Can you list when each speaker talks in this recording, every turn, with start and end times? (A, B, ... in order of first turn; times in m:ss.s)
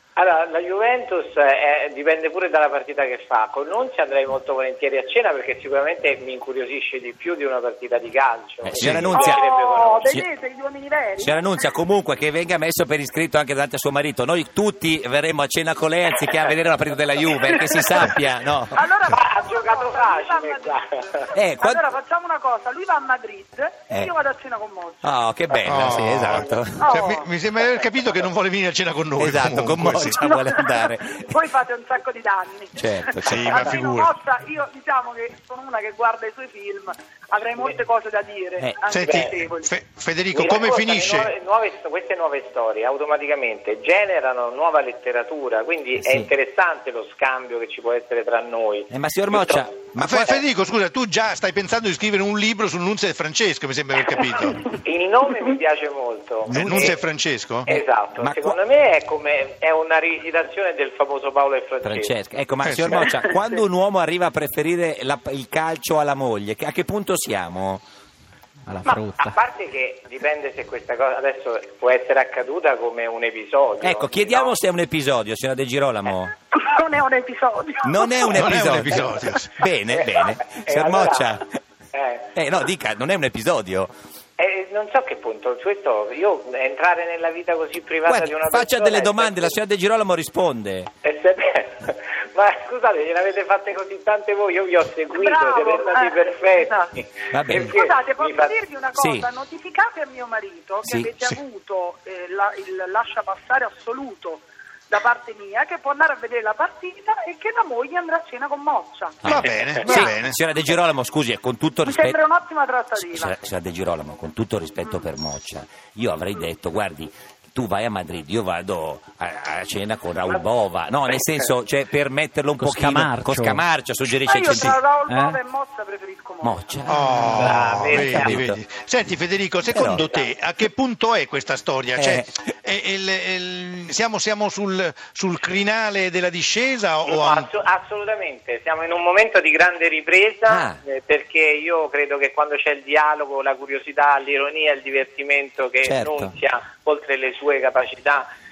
0:00.2-0:10.2 A
0:08.6-0:09.4 B
0:08.8-0:09.1 C
0:09.1-0:11.4 D
0:11.2-0:18.8 B
0:17.7-0:18.2 D
0:18.7-0:25.1 D
0:19.1-0:21.2 A
0:21.3-0:21.9 B
0:25.0-0:27.0 B
0:25.7-0:30.2 C
0:26.8-0:27.3 D
0:29.2-0:31.3 B
0:30.2-0:39.7 D
0:32.8-0:33.8 B
0:33.2-0:34.2 C
0:38.9-0:41.3 C
0:39.0-0:39.3 A
0:40.3-0:49.7 A
0:46.0-0:46.3 B
0:48.9-0:50.4 B
0:50.0-0:54.7 C
0:54.8-0:57.0 A
0:56.5-0:57.7 C
0:56.5-0:56.9 B
0:57.7-0:58.6 B
0:57.7-1:02.1 A
1:01.8-1:07.8 B
1:02.6-1:03.1 C
1:02.9-1:03.2 A
1:08.7-1:09.3 E
1:08.8-1:14.6 A
1:13.8-1:16.4 B
1:16.5-1:18.5 D
1:17.8-1:21.5 B
1:18.3-1:19.5 C
1:19.9-1:21.4 A
1:21.9-1:22.3 A
1:22.3-1:23.9 B
1:24.4-1:29.6 A
1:28.1-1:30.9 B
1:31.0-1:38.6 A
1:35.1-1:36.9 D
1:37.3-1:37.7 B
1:37.5-1:50.1 D
1:39.0-1:39.3 B
1:49.2-1:50.4 C
1:49.2-1:52.2 B
1:49.4-1:50.0 A
1:51.8-1:53.4 D
1:53.0-2:04.8 B
2:01.1-2:01.5 A
2:02.6-2:03.6 E
2:04.1-2:07.0 D
2:05.1-2:05.4 E
2:06.4-2:08.6 B
2:06.9-2:17.5 C
2:07.3-2:08.4 A
2:09.7-2:10.0 B
2:09.9-2:10.3 A
2:12.0-2:12.3 B
2:17.1-2:28.3 A
2:20.5-2:20.8 B
2:25.8-2:26.4 B